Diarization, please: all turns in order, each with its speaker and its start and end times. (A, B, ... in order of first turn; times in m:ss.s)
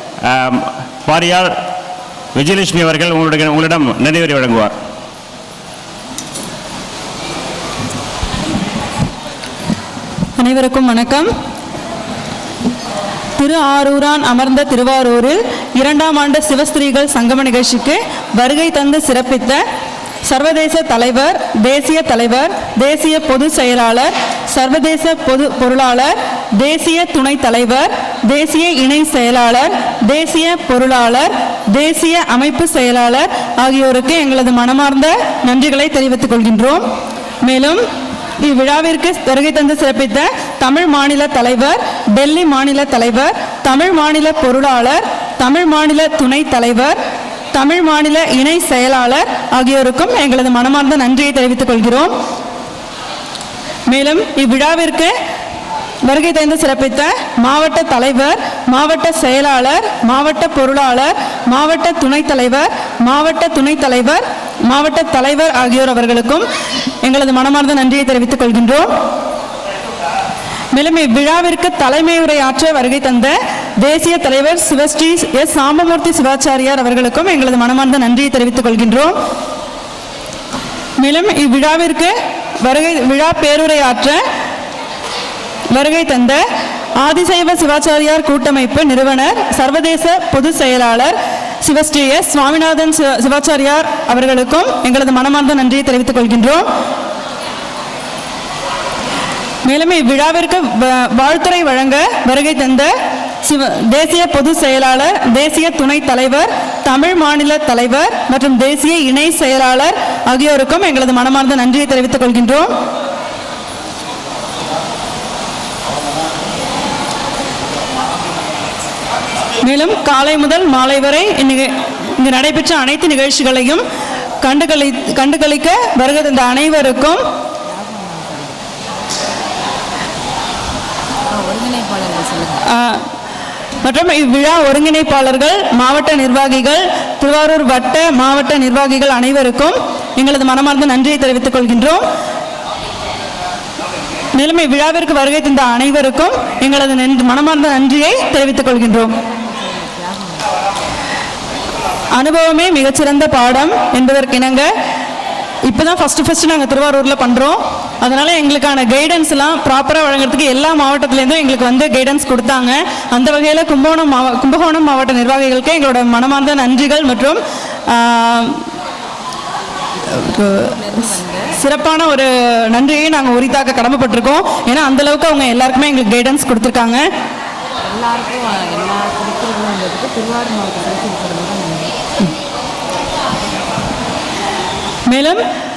0:00.2-0:01.5 A
0:02.3-0:04.7 A
0:10.4-0:11.3 B
0:13.4-0:19.6 B
0:20.2-0:36.9 B
0:37.4-0:37.8 B
0:38.4-0:47.0 B
0:47.5-0:52.1 B
0:53.9-0:55.2 B
0:56.0-1:06.5 B
1:07.0-1:08.9 B
1:10.7-1:19.2 B
1:21.0-1:24.2 B
1:25.7-1:26.4 B
1:27.0-1:36.7 B
1:39.6-1:52.7 B
1:59.6-2:03.8 B
2:04.4-2:07.2 B
2:07.6-2:08.6 C
2:11.3-2:12.7 C
2:12.6-2:13.1 B
2:13.8-2:22.1 B
2:24.4-2:29.2 B
2:29.2-2:30.5 C
2:32.1-2:34.7 B
2:35.6-2:48.7 B
2:50.0-2:51.5 C
2:50.1-2:50.8 B
2:51.5-2:57.1 B
2:57.8-3:02.0 C
3:05.1-3:05.4 B